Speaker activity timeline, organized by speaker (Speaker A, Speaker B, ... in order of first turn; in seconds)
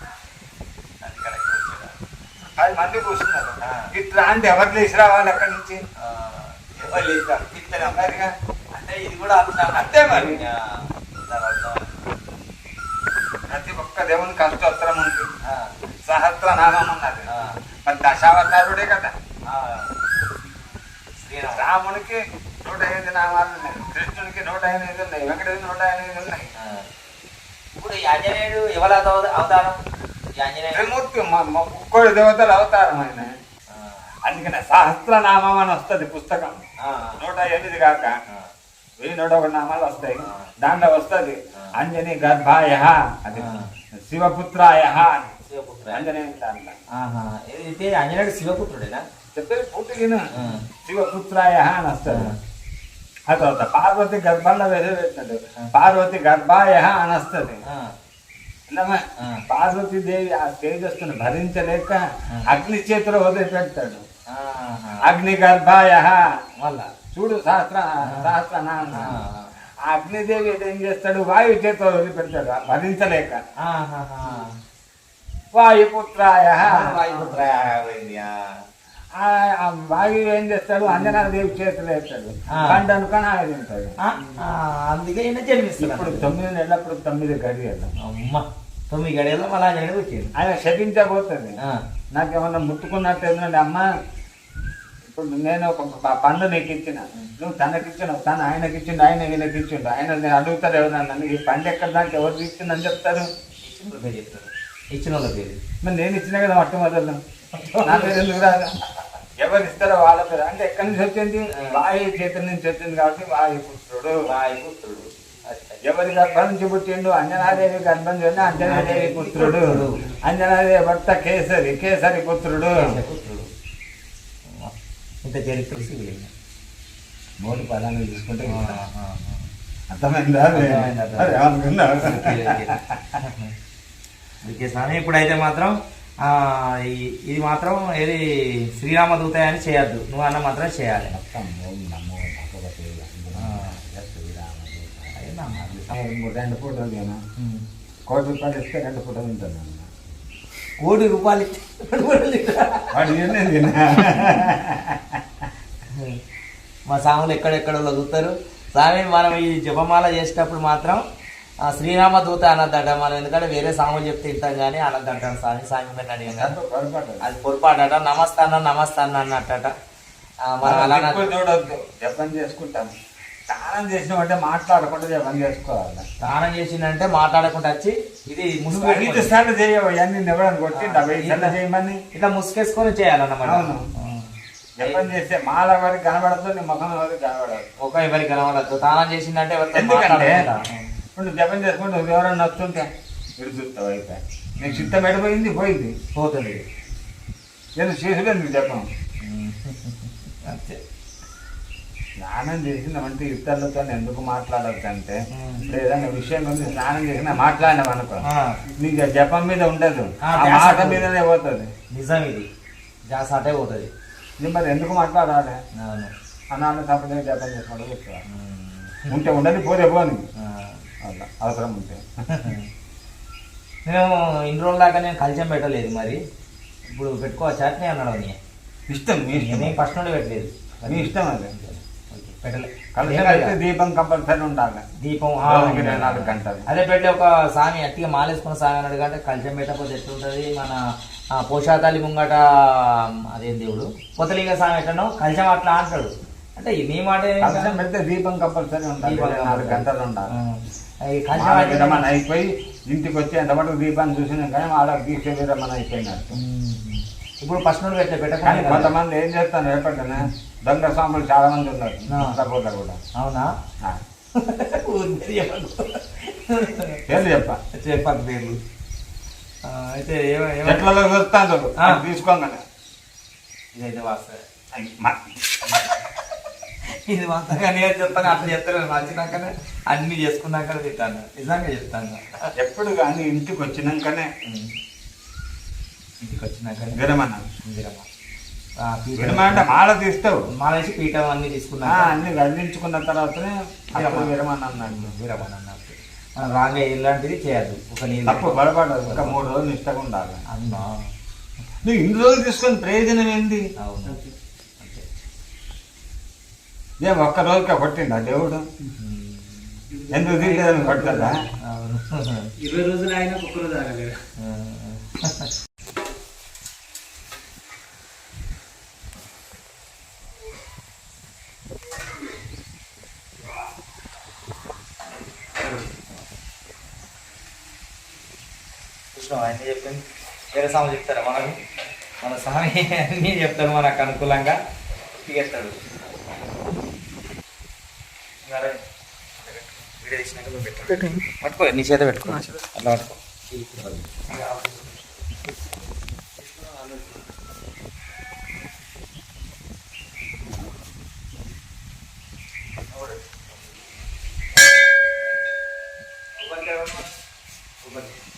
Speaker A: 1.0-2.0, 3.6-3.9, 6.0-8.1, 8.7-11.9, 15.5-15.7, 17.3-17.6, 19.5-19.9, 21.2-21.7, 26.6-26.9, 27.8-29.8, 30.4-30.9, 33.7-34.1, 36.8-37.2, 40.2-40.5, 43.3-43.8, 45.5-46.1, 46.9-49.0, 50.3-50.6, 52.1-52.4, 57.6-57.9, 59.2-59.4, 64.3-65.1, 66.6-66.9, 68.1-68.3, 68.9-69.5, 73.6-74.5, 76.6-78.3, 82.5-82.8, 84.0-86.3, 88.0-90.3, 103.6-105.6, 107.5-108.2, 111.5-111.8, 114.3-115.8, 118.5-120.0, 122.8-123.5, 124.5-124.7, 125.2-126.3, 128.4-129.5, 130.5-131.4, 132.0-133.5, 134.4-141.1, 143.4-143.8, 145.2-145.7, 147.4-147.6, 150.8-153.2, 155.9-156.2, 156.9-161.0, 161.6-166.5, 167.2-169.7, 170.4-171.3, 176.2-179.3, 180.8-181.5, 182.1-185.0, 187.8-190.9, 194.6-194.9, 196.1-196.6, 199.2-200.8, 205.3-205.8, 208.2-208.6, 210.2-211.1, 211.9-212.5, 213.1-213.9, 215.8-216.1, 218.3-219.2, 220.4-220.8, 222.3-222.7, 223.9-226.2, 226.9-228.4, 229.3-233.6, 235.0-240.8, 241.3-247.8, 249.0-252.1, 256.3-258.9, 262.1-262.4, 263.1-263.5, 264.4-267.2, 267.7-268.6, 269.6-270.9, 273.8-274.4, 275.7-276.0, 276.9-282.4, 284.4-284.8, 286.2-287.0, 287.6-288.1, 288.8-289.7, 290.6-292.1, 293.9-294.3, 294.8-299.4, 300.5-301.1, 303.8-304.2, 304.8-305.1, 309.0-309.8, 311.6-312.5, 314.4-315.5, 329.1-331.6, 332.2-334.6, 335.2-335.9, 338.4-338.8, 339.4-345.0, 346.4-347.3, 352.9-353.6, 356.4-357.1, 357.8-358.1
Speaker B: 2.6-5.8, 7.8-8.3, 9.7-10.4, 13.5-15.3, 16.1-17.3, 17.9-19.1, 21.5-26.5, 30.7-33.4, 34.3-36.7, 37.2-38.1, 39.0-45.3, 45.9-46.8, 49.3-52.3, 53.3-57.6, 58.7-64.0, 65.0-66.2, 67.1-69.2, 69.8-73.4, 75.5-77.4, 79.1-84.0, 85.8-87.9, 90.4-91.6, 92.1-93.8, 95.0-103.3, 105.8-107.2, 107.8-108.8, 109.4-114.2, 115.8-122.9, 127.4-128.8, 129.9-133.1, 141.1-147.2, 148.1-149.9, 152.9-155.4, 166.3-167.2, 170.6-172.9, 173.5-176.0, 178.7-182.0, 183.4-183.8, 184.8-187.7, 189.7-190.5, 191.1-195.9, 197.8-198.9, 202.2-208.2, 208.8-211.7, 214.4-215.6, 216.5-218.2, 219.1-220.3, 221.0-222.0, 228.9-229.8, 230.9-231.5, 232.9-234.8, 235.4-236.7, 247.4-250.3, 251.4-256.3, 258.4-263.0, 267.1-267.6, 270.6-272.6, 274.7-275.2, 282.6-284.3, 287.0-287.5, 289.2-290.4, 291.9-295.1, 298.3-300.4, 301.8-303.6, 307.0-308.6, 310.1-311.4
Speaker C: 304.1-304.3, 309.9-311.4, 312.6-314.2